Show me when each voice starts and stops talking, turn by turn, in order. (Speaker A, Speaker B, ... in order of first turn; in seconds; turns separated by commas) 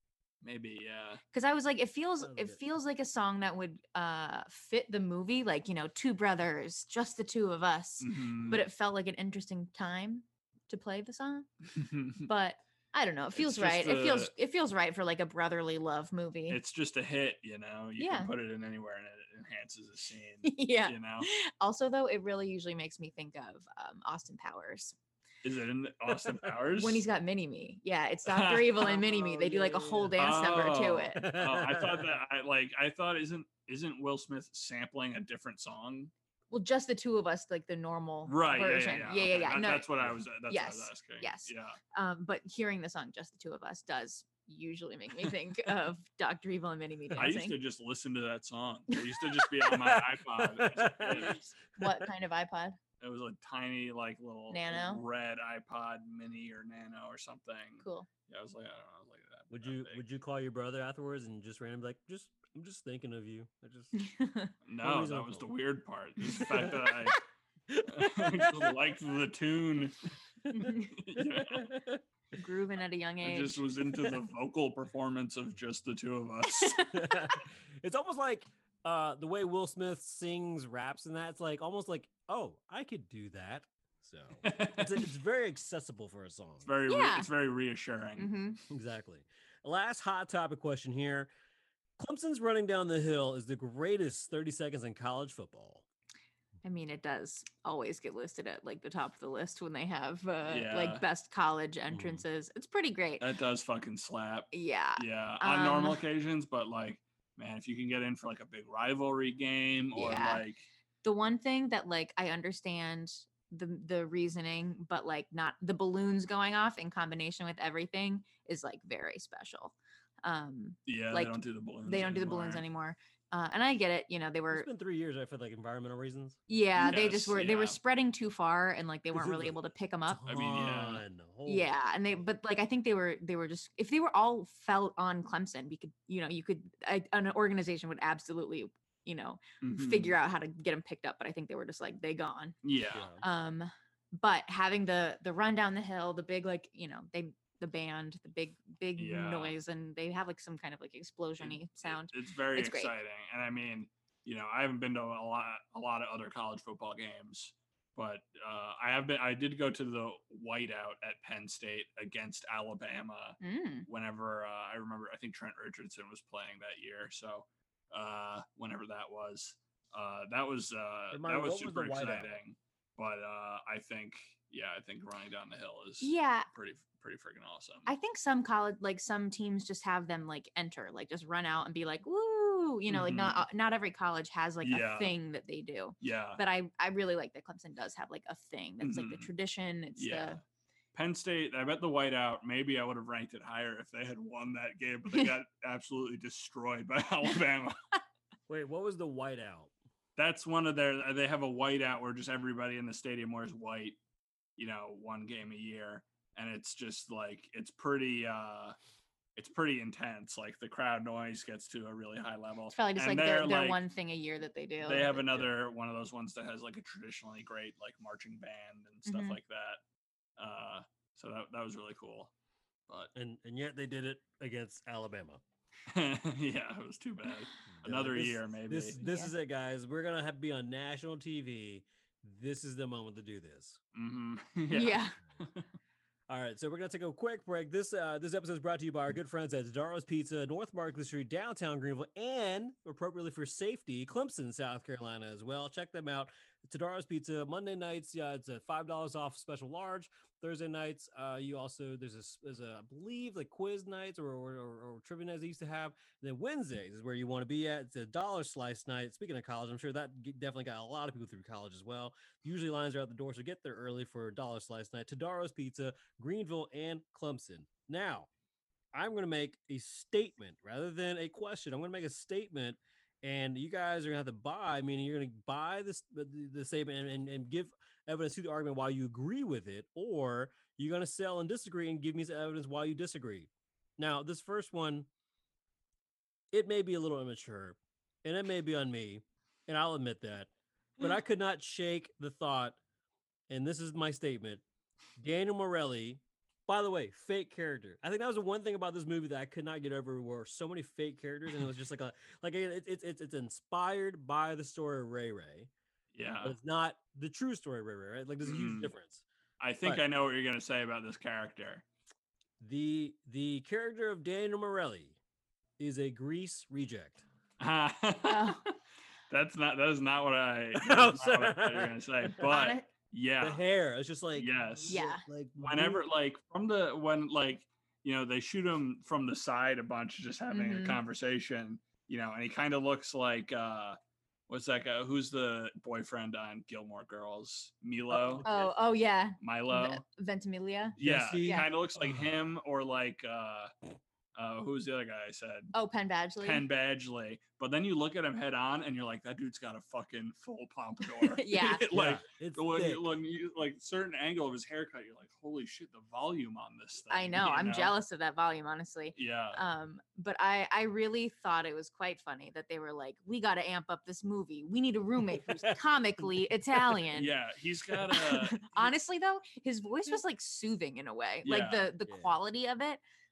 Speaker A: 0.4-1.2, Speaker B: 1.3-11.6, Speaker C: 2.2-2.6, Speaker A: 8.0-8.7, Speaker A: 11.7-12.3, Speaker B: 12.2-16.6, Speaker A: 13.3-14.3, Speaker A: 16.5-21.3, Speaker B: 18.0-18.3, Speaker B: 20.4-24.9, Speaker A: 25.4-27.1, Speaker B: 26.7-31.2, Speaker A: 28.3-29.0, Speaker C: 28.8-30.3, Speaker A: 30.1-36.1, Speaker C: 31.1-32.2, Speaker B: 36.5-40.0, Speaker A: 38.2-41.8, Speaker B: 40.5-47.6, Speaker A: 47.2-51.5, Speaker B: 48.9-49.5, Speaker C: 49.7-52.1, Speaker B: 51.3-52.8, Speaker A: 53.0-60.0, Speaker B: 54.5-55.0, Speaker B: 57.8-58.1, Speaker C: 59.5-64.1, Speaker B: 64.0-64.5, Speaker A: 64.7-67.2, Speaker C: 64.8-65.5, Speaker C: 66.3-67.1, Speaker C: 67.7-68.8, Speaker A: 67.9-70.0, Speaker B: 70.5-71.0, Speaker A: 70.9-71.7, Speaker C: 71.2-72.0, Speaker B: 72.3-73.7, Speaker A: 73.2-76.8, Speaker B: 76.5-77.3, Speaker C: 76.9-86.7, Speaker A: 84.4-85.0, Speaker A: 86.7-88.3, Speaker B: 86.9-87.3, Speaker B: 88.2-88.6, Speaker C: 88.7-91.3, Speaker C: 92.0-95.8, Speaker B: 96.6-103.3, Speaker A: 100.5-101.0, Speaker C: 101.9-102.2, Speaker A: 103.2-110.7, Speaker B: 104.5-106.0, Speaker B: 110.0-110.4, Speaker B: 111.0-124.7, Speaker A: 120.9-122.6, Speaker C: 124.5-126.4, Speaker B: 126.5-130.3, Speaker A: 126.8-127.8, Speaker C: 129.1-132.2, Speaker A: 130.3-131.0, Speaker B: 131.5-142.6, Speaker A: 139.6-140.2, Speaker A: 142.6-143.1, Speaker C: 142.9-143.2, Speaker B: 143.2-152.9, Speaker A: 149.0-149.6, Speaker A: 151.4-177.9, Speaker B: 163.4-163.9, Speaker C: 171.1-172.3, Speaker B: 176.0-176.5, Speaker B: 177.9-190.4, Speaker A: 182.9-183.4, Speaker A: 184.6-185.1, Speaker A: 186.0-186.4, Speaker A: 188.8-189.3, Speaker A: 190.0-190.4, Speaker A: 190.9-197.8, Speaker C: 198.5-199.7, Speaker A: 200.2-204.0, Speaker A: 204.6-208.8, Speaker A: 209.4-213.8, Speaker B: 212.7-215.4, Speaker A: 214.8-219.8, Speaker B: 219.1-219.4, Speaker A: 220.4-222.3, Speaker C: 223.1-225.4, Speaker A: 225.9-229.0, Speaker C: 227.8-233.8, Speaker B: 229.0-229.3, Speaker A: 233.9-235.7, Speaker B: 234.7-235.2, Speaker C: 236.3-268.3, Speaker C: 268.9-285.1, Speaker C: 286.5-292.8, Speaker C: 293.5-294.6, Speaker C: 295.2-305.7, Speaker A: 306.1-306.6, Speaker C: 306.4-309.2, Speaker A: 308.4-308.9, Speaker A: 309.6-311.9, Speaker C: 312.6-315.2, Speaker C: 315.8-317.2, Speaker A: 317.6-318.7, Speaker B: 318.2-318.6, Speaker A: 319.3-323.6, Speaker C: 320.8-322.4, Speaker B: 322.4-322.9, Speaker C: 323.4-326.0, Speaker A: 324.4-325.0, Speaker B: 324.9-325.2, Speaker A: 325.6-334.0, Speaker B: 330.5-331.0, Speaker A: 334.5-338.5, Speaker C: 338.1-338.7, Speaker B: 338.4-341.7, Speaker A: 339.4-340.0, Speaker C: 341.0-342.3, Speaker A: 341.0-343.7, Speaker A: 344.4-345.7, Speaker B: 345.7-346.6, Speaker A: 346.4-357.9, Speaker B: 351.2-351.9, Speaker C: 351.9-353.1, Speaker B: 357.1-367.3, Speaker A: 359.1-359.6, Speaker C: 365.4-365.8, Speaker C: 366.7-367.0, Speaker A: 367.1-368.9, Speaker B: 368.0-373.0, Speaker A: 371.4-371.9, Speaker C: 372.1-372.3